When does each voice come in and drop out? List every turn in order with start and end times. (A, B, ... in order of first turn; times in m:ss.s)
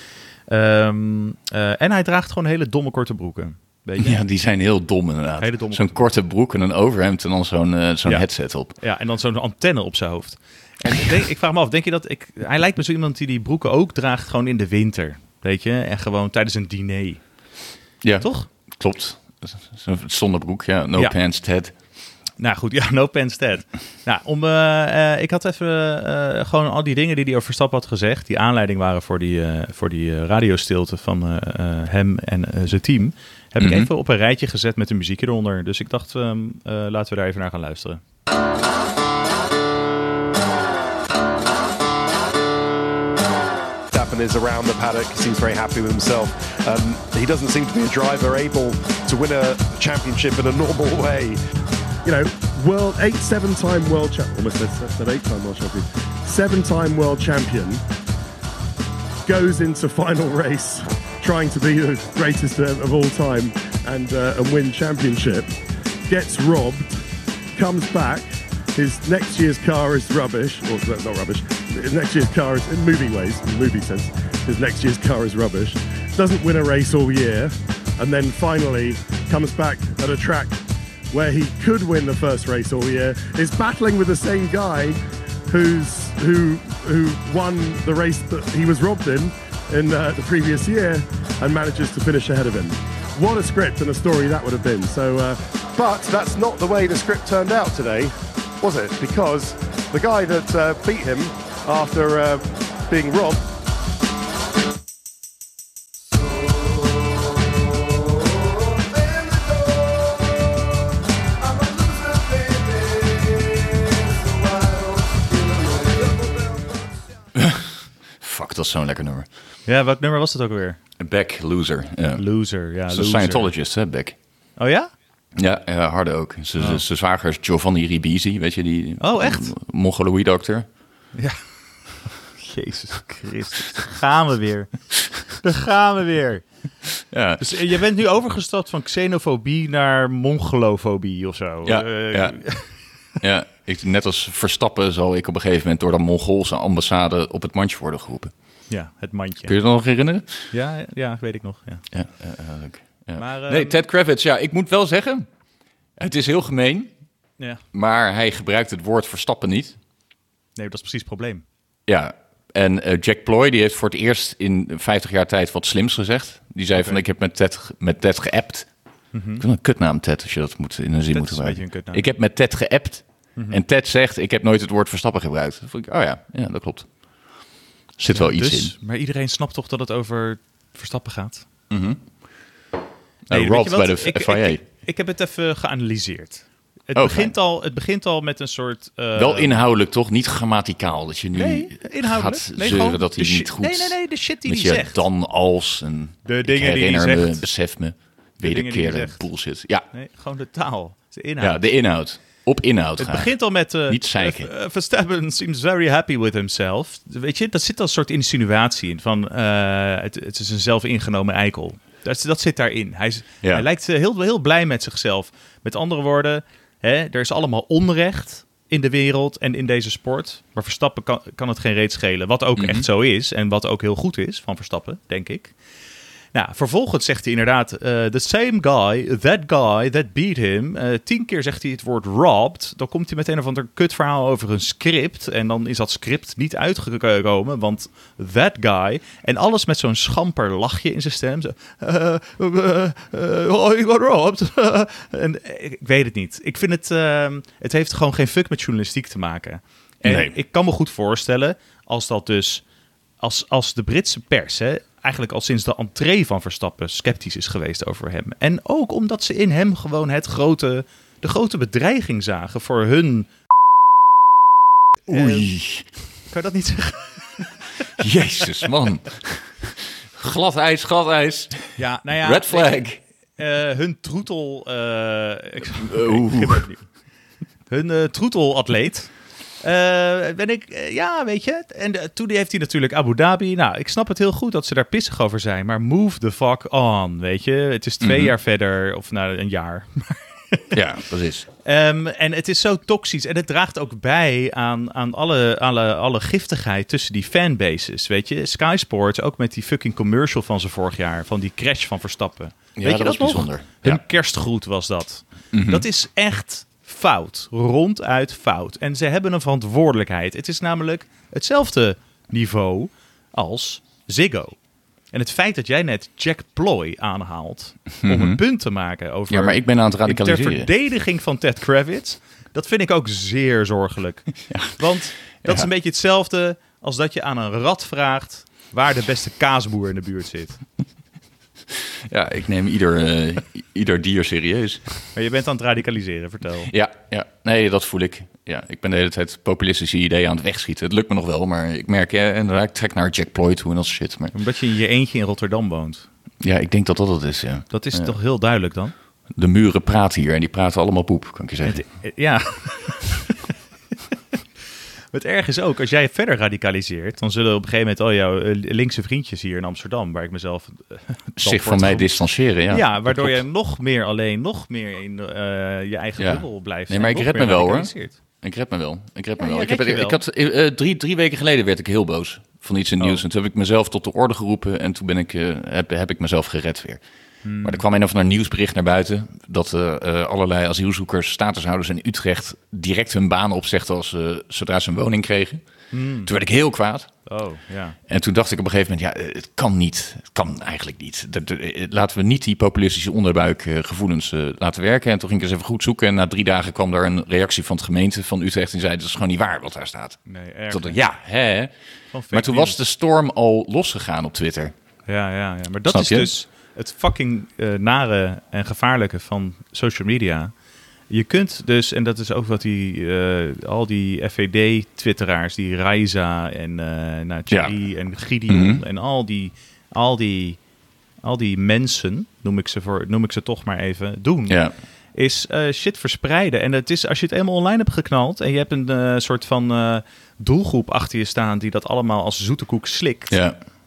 0:00.5-0:04.2 A
0:04.0-0:08.7 B
0:05.4-0:06.1 A
0:08.0-0:17.2 A
0:18.0-0:21.7 B
0:18.2-0:18.5 A
0:22.4-0:38.0 A
0:33.6-0:33.9 B
0:43.9-0:51.4 C
0:52.0-0:57.8 D
0:59.3-1:05.5 D
1:06.1-1:06.9 D
1:07.6-1:43.4 D
1:57.4-1:59.3 B
1:59.7-2:00.8 A
2:01.0-2:02.2 B
2:02.2-2:03.5 A
2:02.9-2:04.2 B
2:04.6-2:04.9 A
2:05.4-2:10.7 B
2:09.0-2:09.5 A
2:12.4-2:14.7 A
2:15.4-2:16.4 A
2:17.1-2:17.7 B
2:17.4-2:22.7 A
2:21.6-2:22.4 B
2:23.2-2:28.3 B
2:28.7-2:29.5 A
2:29.5-2:30.3 B
2:30.5-2:31.8 A
2:31.9-2:35.3 B
2:33.2-2:33.8 A
2:36.0-2:36.9 B
2:37.7-2:39.8 B
2:40.6-2:41.4 A
2:41.9-2:48.7 B
2:46.8-2:47.0 A
2:49.1-2:49.4 A
2:49.4-2:56.9 B
2:51.1-2:52.1 A
2:53.4-2:53.6 A
2:58.0-2:58.7 B
2:58.1-3:01.5 A
3:01.7-3:02.0 B
3:03.3-3:04.6 B
3:03.3-3:09.6 A
3:06.9-3:07.3 B
3:09.2-3:19.8 B
3:11.4-3:15.0 A
3:16.3-3:17.4 A
3:18.4-3:19.2 A
3:19.9-3:21.6 A
3:21.4-3:24.5 B
3:23.0-3:45.6 A
3:42.6-3:42.9 B
3:46.3-4:12.6 A
4:10.0-4:10.3 B
4:13.2-4:23.3 A
4:25.1-4:25.5 A
4:25.1-4:25.9 B
4:26.3-4:27.6 A
4:28.0-4:33.0 B
4:31.8-4:32.9 A
4:33.4-4:36.8 A
4:35.8-4:36.7 B
4:37.7-4:50.8 A
4:48.0-4:48.3 B
4:50.7-4:51.5 B
4:51.6-5:14.6 A
5:02.8-5:04.0 B
5:05.5-5:05.9 B
5:15.1-5:30.6 A
5:18.0-5:18.4 B
5:19.3-5:20.7 B
5:24.5-5:24.8 B
5:32.1-5:34.8 B
5:35.2-5:36.7 A
5:36.7-5:44.3 B
5:44.3-5:46.1 A
5:46.4-5:48.1 B
5:47.7-5:48.9 A
5:49.4-5:51.8 B
5:51.6-5:53.4 A
5:55.1-6:02.1 A
6:01.4-6:03.4 B
6:02.7-6:08.2 A
6:06.2-6:17.0 B
6:09.4-6:10.2 A
6:17.4-6:17.8 A
6:17.6-6:25.6 B
6:25.9-6:26.3 A
6:26.2-6:27.1 B
6:27.3-6:28.0 A
6:28.1-6:40.2 B
6:40.3-6:41.0 A
6:40.7-6:41.7 B
6:42.1-6:42.8 A
6:42.3-6:44.7 B
6:45.1-6:50.5 A
6:45.9-6:46.3 B
6:51.1-7:00.6 A
6:58.5-6:58.8 B
7:01.2-7:04.6 A
7:05.2-7:13.4 A
7:13.3-7:13.6 B